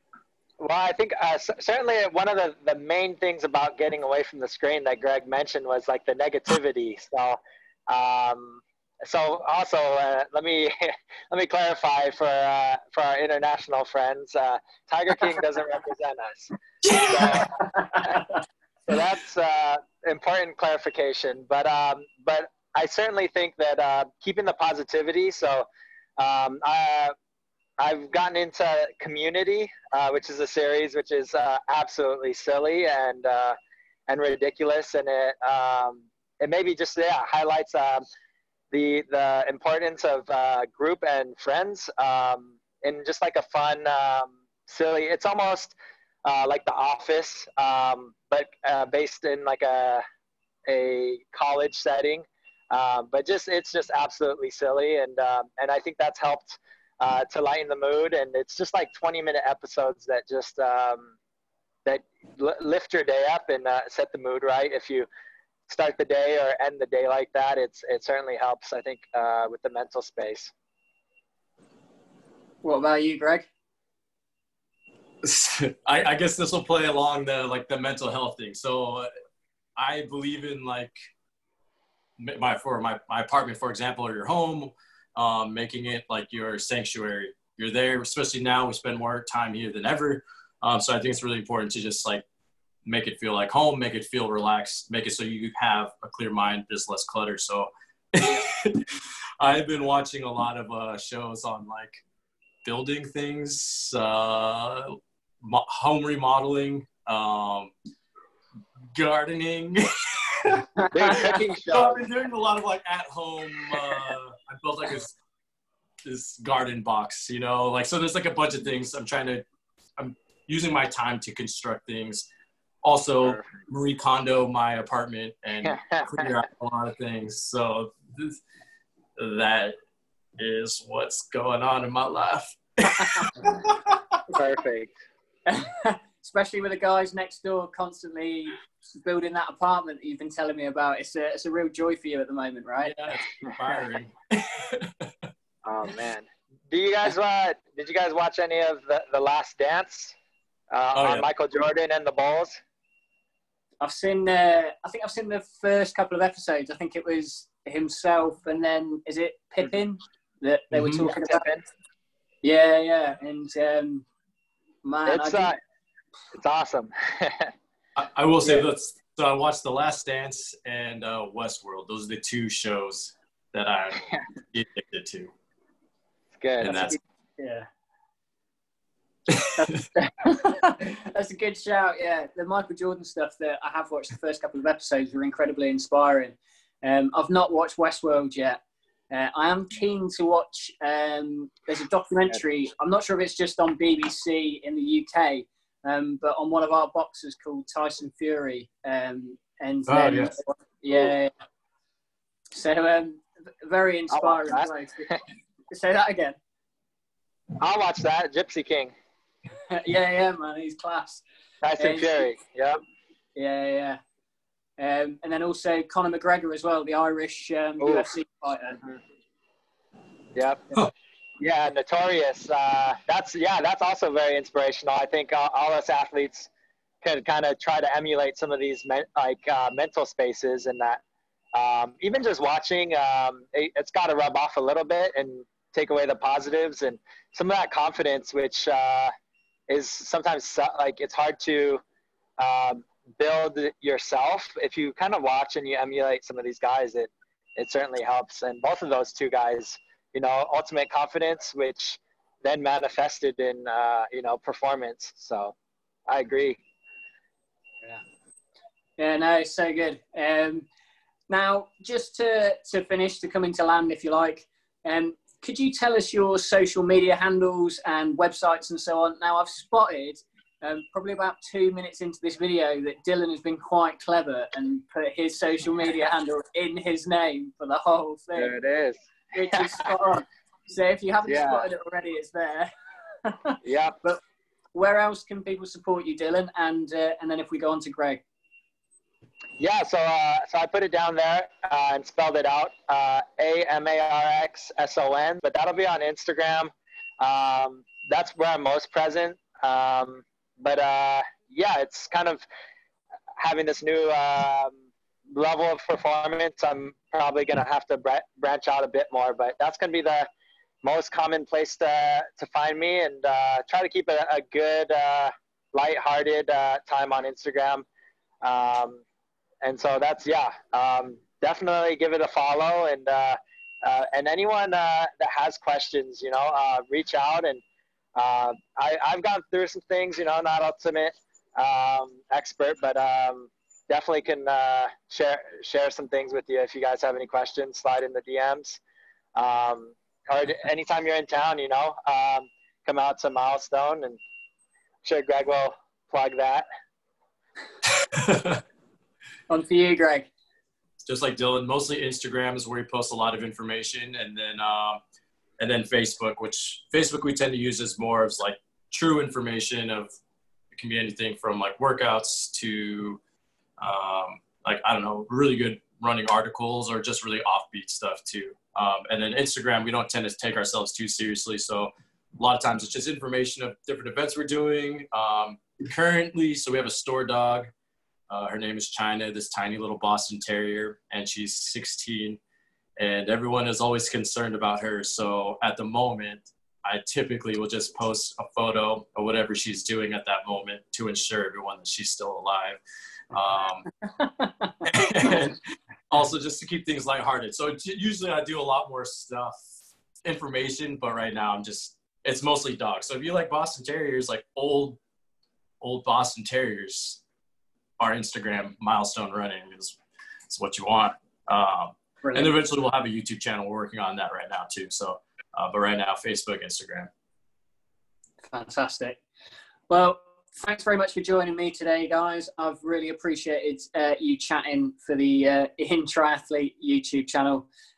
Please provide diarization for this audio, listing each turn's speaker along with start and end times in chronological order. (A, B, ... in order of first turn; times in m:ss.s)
0:00.6-0:17.5 A
0:16.8-0:17.5 B
0:17.8-0:18.1 C
0:18.9-0:25.7 A
0:26.2-0:27.1 A
0:27.8-0:33.6 A
0:34.1-0:38.0 A
0:38.7-0:50.0 A
0:50.7-1:01.1 A
1:01.8-1:05.1 A
1:05.7-1:10.5 A
1:12.6-1:13.5 C
1:15.2-1:19.1 B
1:19.8-1:21.0 B
1:22.2-1:32.2 B
1:32.8-1:42.0 B
1:42.6-1:47.7 B
1:49.0-1:55.2 B
1:50.9-1:52.0 A
1:51.0-1:51.3 C
1:56.0-1:59.4 B
2:00.0-2:02.3 B
2:02.8-2:08.4 B
2:03.2-2:03.5 A
2:05.6-2:06.4 A
2:09.2-2:09.8 B
2:10.4-2:13.8 B
2:14.3-2:14.9 A
2:15.5-2:23.0 C
2:22.8-2:25.1 B
2:25.6-2:30.2 A
2:30.7-2:32.6 A
2:31.0-2:31.3 B
2:33.8-2:41.5 C
2:40.7-2:41.1 B
2:41.0-2:41.6 A
2:42.4-2:44.1 C
2:44.8-2:45.5 C
2:45.1-2:45.6 A
2:46.3-2:47.5 A
2:48.0-2:55.3 B
2:56.4-2:57.0 A
2:56.6-2:57.0 B
2:56.9-2:57.7 C
2:59.3-2:59.9 B
2:59.6-3:08.6 C
3:09.1-3:21.3 C
3:19.9-3:20.3 B
3:22.5-3:25.2 C
3:24.1-3:25.2 A
3:25.7-3:26.4 C
3:27.6-3:28.9 A
3:29.7-3:31.2 C
3:31.6-3:32.8 A
3:31.8-3:32.3 C
3:33.4-3:34.0 C
3:34.8-3:38.8 C
3:37.8-3:38.1 A
3:40.4-3:40.8 A
3:41.4-3:46.5 A
3:47.0-3:51.0 A
3:51.5-3:59.1 A
3:59.7-4:01.8 A
4:02.4-4:15.6 A
4:16.1-4:16.6 A
4:19.0-4:20.7 C
4:21.3-4:38.5 C
4:38.4-4:39.9 A
4:39.3-4:42.7 C
4:41.3-4:41.7 A
4:43.2-4:44.2 C
4:43.6-4:44.0 A
4:44.7-4:48.2 C
4:49.6-5:02.4 A
5:03.4-5:04.8 A
5:05.3-5:10.3 A
5:10.8-5:17.8 A
5:18.4-5:19.0 A
5:19.6-5:27.6 A
5:28.2-5:38.8 A
5:39.4-5:44.2 A
5:45.0-5:46.7 A
5:48.2-5:48.6 B
5:49.5-5:50.3 C
5:51.0-5:55.0 B
5:55.6-6:00.1 B
6:00.7-6:03.2 B
6:03.8-6:17.7 B
6:18.3-6:22.4 B
6:23.0-6:32.8 B
6:33.3-6:33.9 B
6:34.0-6:34.8 C
6:34.8-6:35.6 B
6:36.1-6:39.6 B
6:40.2-6:45.0 B
6:45.8-6:47.2 B
6:48.0-6:50.0 B
6:50.5-6:57.1 B
6:52.2-6:52.5 C
6:58.5-6:59.2 C
6:59.9-7:07.7 C